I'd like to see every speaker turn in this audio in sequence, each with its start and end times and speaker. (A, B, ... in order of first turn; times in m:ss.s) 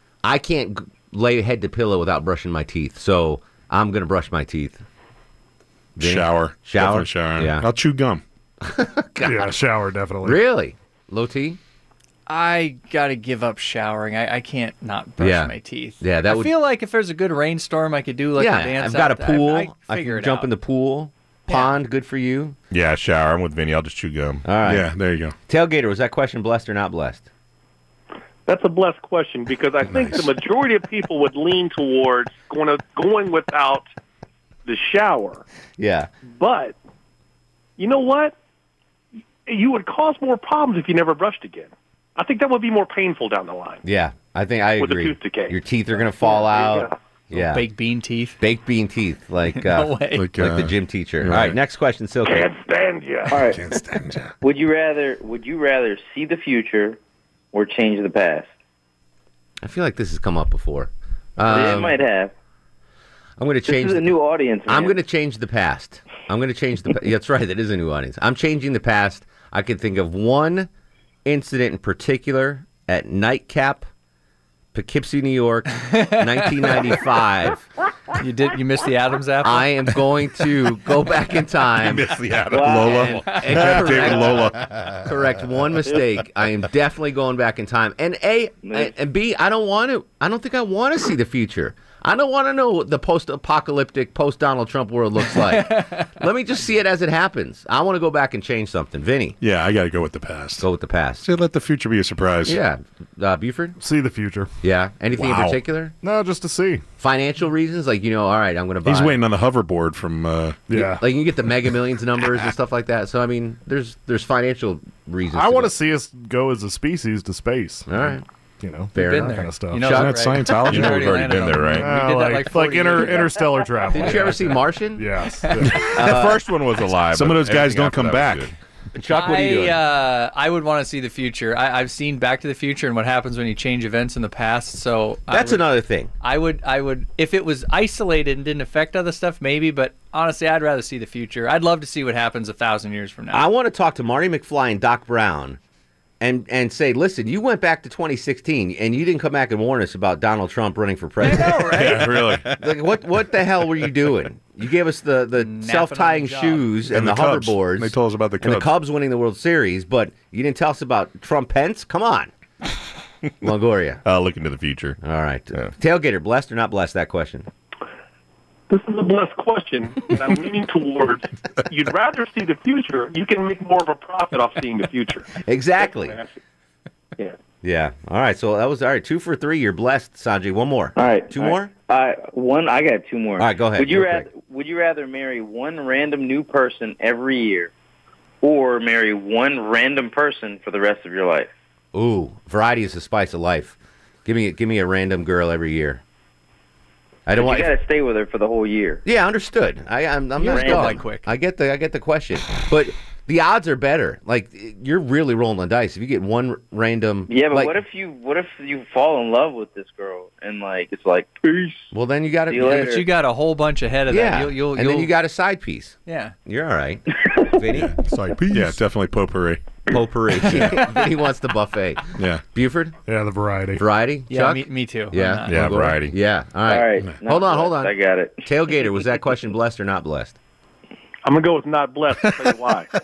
0:00.2-0:04.8 A
0:06.0-0:07.7 A
0:06.0-0:08.2 B
0:08.6-0:09.5 A
0:09.2-0:10.4 C
0:10.2-0:11.6 A
0:12.3-0:20.5 D
0:15.2-0:16.5 A
0:18.4-0:22.6 A
0:21.5-0:21.8 D
0:22.7-0:24.4 E
0:24.4-0:24.9 A
0:24.6-0:25.3 B
0:25.5-0:27.3 A
0:28.4-0:33.9 F
0:29.9-0:30.2 B
0:34.6-0:35.4 F
0:35.8-0:36.1 A
0:36.2-0:36.8 F
0:37.8-0:38.3 F
0:39.5-0:43.8 F
0:43.8-0:47.7 A
0:44.8-0:45.6 F
0:46.5-0:46.9 F
0:47.3-0:48.4 D
0:48.4-0:52.5 A
0:49.5-0:50.3 D
0:50.1-0:51.6 B
0:52.2-0:53.3 F
0:53.3-0:53.6 G
0:53.3-0:54.3 B
0:54.4-0:57.0 G
0:57.5-0:58.5 G
0:59.6-1:02.0 A
1:01.5-1:02.3 G
1:03.4-1:10.7 A
1:03.6-1:05.0 G
1:11.2-1:13.9 A
1:14.7-1:17.7 A
1:15.7-1:17.0 D
1:18.2-1:19.8 D
1:19.4-1:39.4 A
1:21.8-1:24.7 B
1:22.5-1:23.0 G
1:23.2-1:23.6 D
1:28.6-1:28.9 G
1:35.3-1:36.1 D
1:39.4-1:40.6 B
1:40.6-1:41.3 A
1:41.2-1:42.6 B
1:42.4-1:43.8 A
1:43.8-1:44.5 C
1:44.6-1:45.9 A
1:45.2-1:45.6 B
1:46.0-1:46.8 C
1:47.0-1:49.2 A
1:48.8-1:50.6 B
1:50.7-1:51.0 C
1:50.7-1:55.7 A
1:55.3-2:00.2 C
1:57.9-1:58.2 A
1:58.9-2:00.7 A
1:58.9-2:04.4 D
2:00.1-2:01.6 B
2:00.7-2:01.0 C
2:00.7-2:01.9 E
2:01.8-2:05.7 C
2:03.9-2:05.0 A
2:05.3-2:05.6 D
2:05.9-2:06.4 A
2:06.0-2:08.5 E
2:07.1-2:08.5 B
2:08.9-2:09.8 A
2:09.1-2:15.6 D
2:15.3-2:16.1 A
2:16.2-2:23.5 D
2:23.3-2:25.6 A
2:26.2-2:42.3 A
2:31.2-2:32.0 D
2:31.8-2:32.4 B
2:35.4-2:36.8 D
2:36.9-2:38.8 B
2:43.4-2:44.0 A
2:44.0-2:45.0 E
2:45.0-2:47.5 A
2:48.7-2:55.3 F
2:55.4-2:56.2 A
2:57.6-3:01.7 A
3:01.0-3:07.7 G
3:03.4-3:04.3 A
3:08.4-3:11.5 G
3:11.9-3:16.0 A
3:17.3-3:17.8 A
3:17.3-3:19.0 G
3:19.0-3:27.8 A
3:20.4-3:21.3 D
3:20.5-3:20.9 G
3:27.3-3:31.9 G
3:31.9-3:33.0 A
3:32.5-3:33.0 G
3:32.6-3:35.1 D
3:34.1-3:38.0 A
3:36.0-3:36.3 D
3:37.7-3:39.6 B
3:39.9-3:42.9 A
3:40.5-3:40.9 D
3:42.2-3:42.4 B
3:43.1-3:43.8 C
3:43.8-3:50.4 A
3:44.3-3:45.7 D
3:45.5-3:46.1 B
3:45.7-3:46.0 E
3:46.6-3:48.9 G
3:51.2-3:52.9 F